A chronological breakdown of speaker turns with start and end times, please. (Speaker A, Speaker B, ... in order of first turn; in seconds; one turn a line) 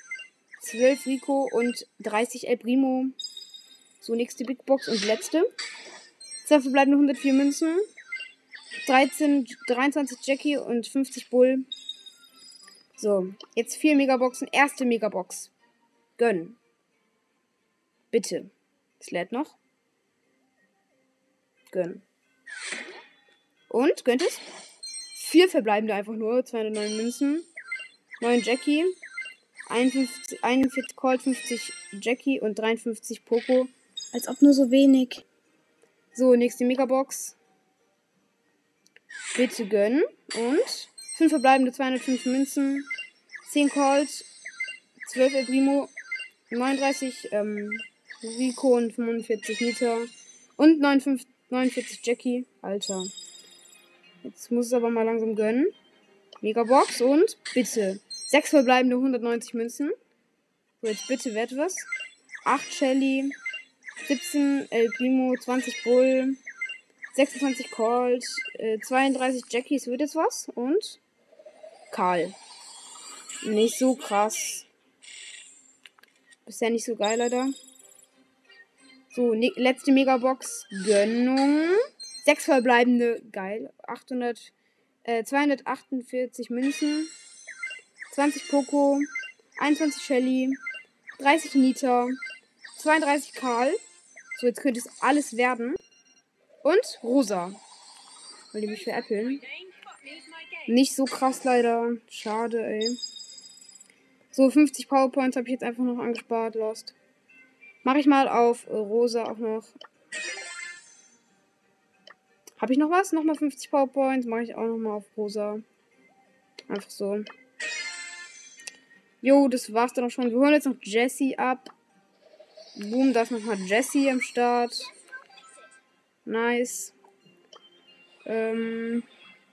Speaker A: 0.6-3.2
Speaker A: 4.0-5.5
Speaker A: 6.4-7.9
Speaker A: 8.8-11.7
Speaker A: 13.0-15.5
Speaker A: 16.2-16.6
Speaker A: 18.1-19.6
Speaker A: 21.7-22.0
Speaker A: 23.7-24.4
Speaker A: 25.1-27.5
Speaker A: 28.2-29.0
Speaker A: 29.7-35.2
Speaker A: 36.1-37.4
Speaker A: 39.3-42.9
Speaker A: 43.4-44.3
Speaker A: 45.0-45.9
Speaker A: 46.5-53.1
Speaker A: 54.2-55.7
Speaker A: 56.4-60.0
Speaker A: 60.8-61.9
Speaker A: 62.4-63.4
Speaker A: 64.0-66.4
Speaker A: 67.1-71.0
Speaker A: 71.9-72.4
Speaker A: 73.4-74.7
Speaker A: 76.4-77.6
Speaker A: 79.1-84.5
Speaker A: 85.0-87.1
Speaker A: 88.1-90.6
Speaker A: 91.2-92.2
Speaker A: 92.8-93.8
Speaker A: 94.3-95.8
Speaker A: 96.6-97.6
Speaker A: 98.5-99.5
Speaker A: 100.6-103.0
Speaker A: 104.3-107.0
Speaker A: 107.8-109.8
Speaker A: 112.6-115.6
Speaker A: 116.7-117.3
Speaker A: 119.2-121.7
Speaker A: 122.8-124.9
Speaker A: 126.2-127.0
Speaker A: 128.2-129.1